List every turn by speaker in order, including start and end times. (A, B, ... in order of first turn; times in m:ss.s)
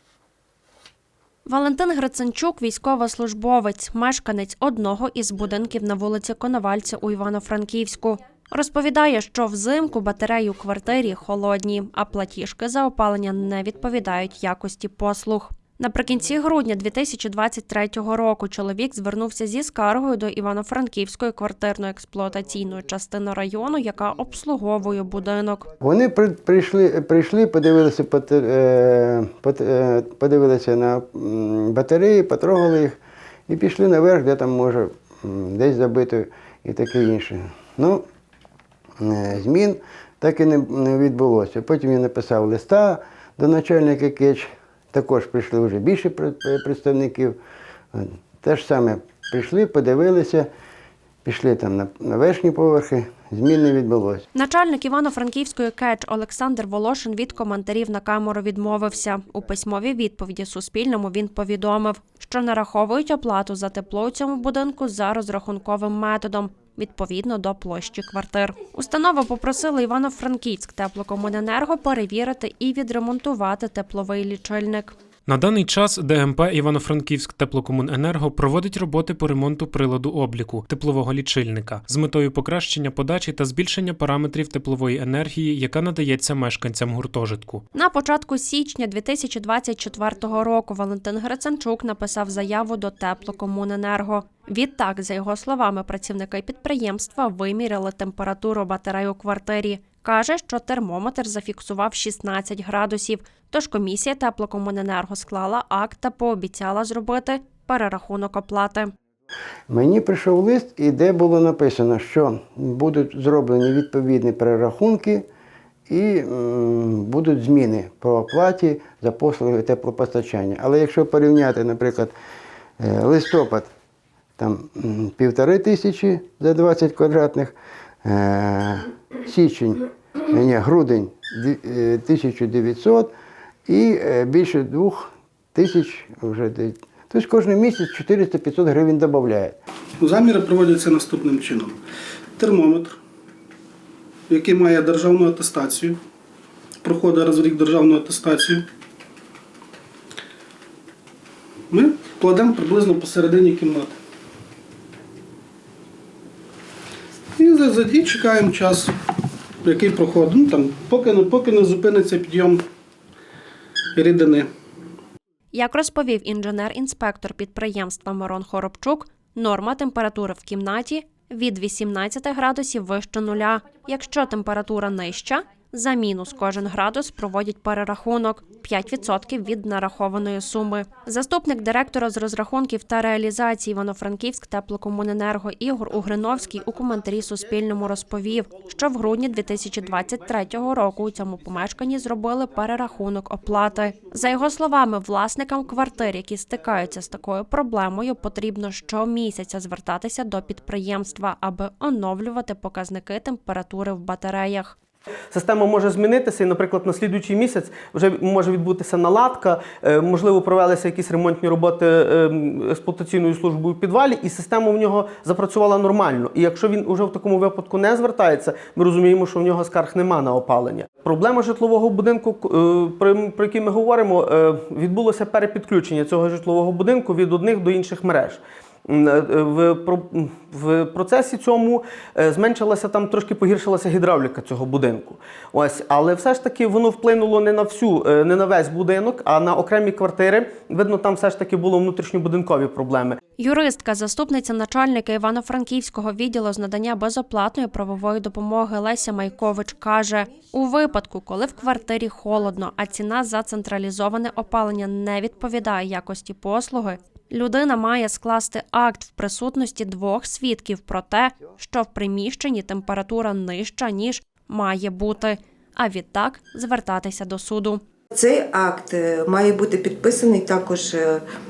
0:01.5-0:25.7 A
0:25.8-0:38.0 B
0:39.0-0:47.4 B
0:47.9-0:50.5 B
0:51.2-0:54.2 B
0:54.3-1:15.0 A
1:15.3-1:27.6 C
1:27.7-1:48.9 A
1:49.7-1:55.2 B
1:55.9-2:02.1 B
2:02.8-2:03.7 B
2:04.4-2:13.1 B
2:13.7-2:19.6 B
2:20.0-2:21.8 D
2:22.4-2:23.0 D
2:24.3-2:26.0 D
2:26.8-2:28.7 D
2:31.7-2:34.0 D
2:37.4-2:38.9 D
2:39.6-2:42.6 D
2:44.0-2:44.5 D
2:45.5-3:24.8 A
3:25.3-4:03.2 E
4:03.4-4:27.8 A
4:09.4-4:10.5 F
4:28.1-4:31.2 F